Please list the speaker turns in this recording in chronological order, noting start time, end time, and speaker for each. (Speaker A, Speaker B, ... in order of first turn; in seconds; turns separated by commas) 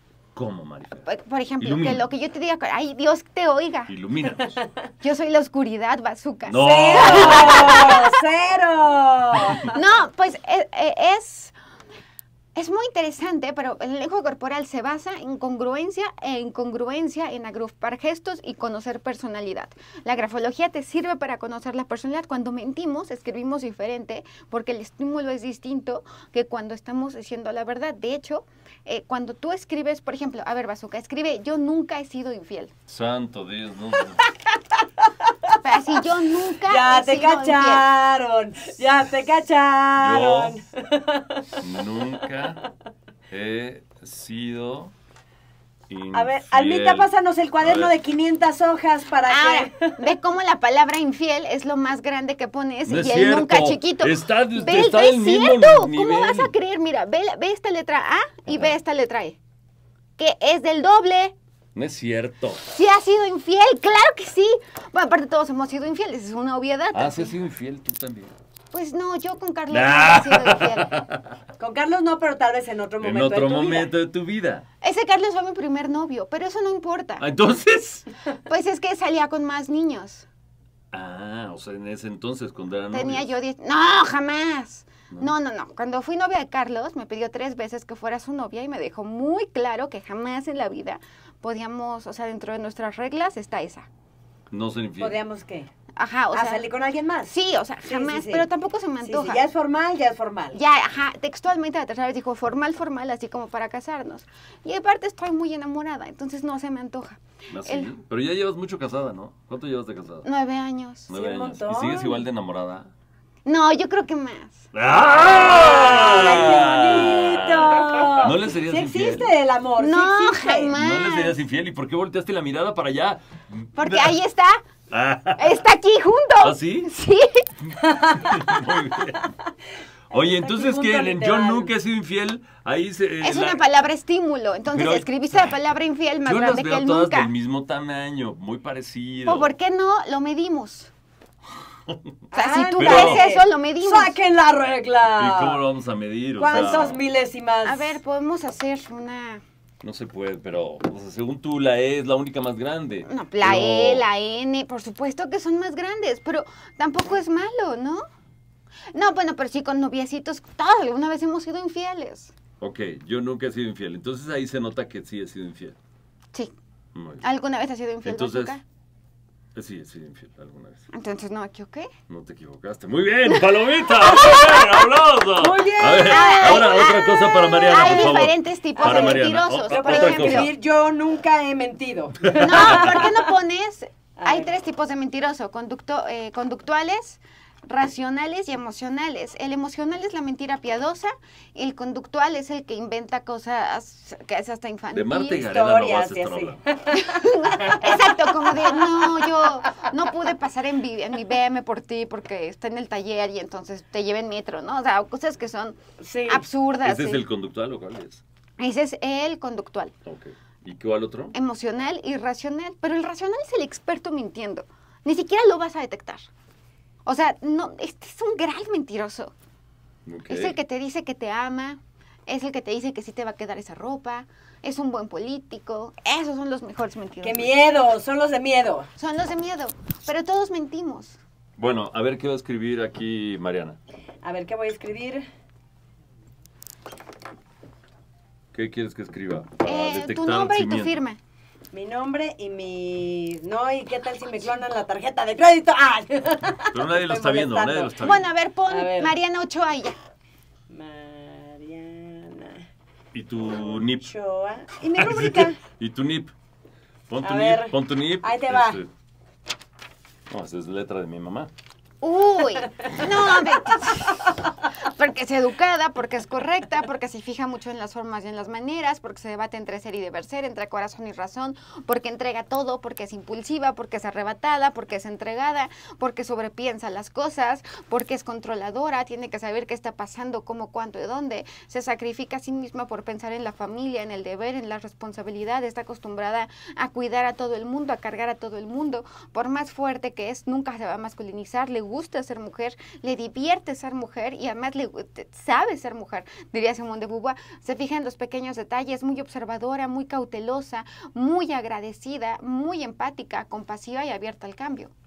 Speaker A: 0.3-1.1, Speaker B: 1.0-3.9, Speaker A: 1.6-2.0, Speaker A: 3.9-4.6, Speaker B: 5.0-8.1, Speaker A: 6.5-7.8, Speaker C: 6.6-9.8, Speaker B: 9.7-11.6, Speaker B: 12.6-32.7, Speaker A: 32.9-34.3, Speaker B: 35.6-37.9, Speaker C: 36.6-41.6, Speaker A: 40.0-40.6, Speaker A: 41.6-42.6, Speaker A: 43.3-44.9, Speaker A: 45.9-47.1, Speaker C: 46.1-50.0, Speaker A: 47.6-48.0, Speaker B: 49.3-59.4, Speaker A: 52.9-56.5, Speaker A: 58.5-58.8, Speaker B: 60.2-61.4, Speaker A: 61.8-62.6, Speaker B: 62.7-67.3, Speaker A: 66.9-68.3, Speaker B: 68.7-71.0, Speaker A: 69.7-71.3, Speaker C: 71.6-73.9, Speaker A: 73.0-74.7, Speaker B: 74.8-77.2, Speaker A: 77.2-78.0, Speaker B: 78.5-80.3, Speaker A: 80.9-83.3, Speaker B: 82.9-93.9, Speaker A: 94.5-95.2, Speaker C: 95.0-95.7, Speaker B: 96.0-96.7, Speaker C: 96.3-98.5, Speaker B: 97.3-99.4, Speaker C: 99.0-100.6, Speaker B: 100.5-107.9, Speaker A: 107.5-110.3, Speaker B: 110.2-111.1, Speaker A: 111.1-112.9, Speaker C: 111.1-112.2, Speaker B: 113.5-114.7, Speaker A: 114.7-119.3, Speaker C: 115.2-120.8, Speaker B: 119.8-121.4, Speaker A: 120.7-124.2, Speaker B: 123.8-124.6, Speaker A: 124.9-125.6, Speaker B: 125.4-127.5, Speaker A: 126.4-126.9, Speaker A: 127.7-129.3, Speaker C: 127.9-128.3, Speaker A: 130.1-133.6, Speaker C: 130.1-131.7, Speaker B: 133.2-137.3, Speaker A: 134.7-135.1, Speaker A: 136.2-139.5, Speaker B: 139.3-140.9, Speaker C: 142.3-145.6, Speaker B: 142.3-144.2, Speaker A: 142.8-143.2, Speaker A: 145.1-147.0, Speaker C: 146.4-148.0, Speaker B: 146.5-146.9, Speaker B: 147.7-149.4, Speaker A: 149.8-154.1, Speaker B: 153.1-158.0, Speaker B: 158.9-162.3, Speaker A: 162.6-165.8, Speaker A: 166.9-167.2, Speaker B: 167.2-168.6, Speaker A: 168.0-168.6, Speaker A: 169.6-170.9, Speaker B: 170.9-171.9, Speaker A: 172.1-180.5, Speaker B: 173.3-174.9, Speaker C: 175.4-176.8, Speaker B: 176.0-180.5, Speaker C: 178.8-183.3, Speaker B: 182.4-195.5, Speaker C: 184.2-184.5, Speaker A: 194.9-196.6, Speaker C: 195.3-197.0, Speaker B: 196.9-207.2, Speaker C: 197.5-199.2, Speaker C: 206.0-206.5, Speaker A: 206.8-208.2, Speaker B: 208.6-209.9, Speaker A: 210.1-211.3, Speaker B: 211.3-216.3, Speaker B: 217.1-219.3, Speaker A: 220.1-220.6, Speaker B: 220.3-227.5, Speaker C: 227.2-228.9, Speaker B: 229.0-231.2, Speaker A: 231.6-233.8, Speaker C: 234.2-235.3, Speaker A: 238.5-241.0, Speaker B: 239.7-241.2, Speaker C: 241.7-248.2, Speaker A: 246.7-248.2, Speaker B: 248.0-250.0, Speaker C: 248.7-249.2, Speaker C: 250.7-252.7, Speaker A: 253.1-254.1, Speaker C: 253.6-255.6, Speaker A: 255.0-256.3, Speaker A: 257.1-258.9, Speaker C: 257.2-258.8, Speaker A: 260.3-261.5, Speaker B: 262.0-304.9, Speaker C: 262.8-263.8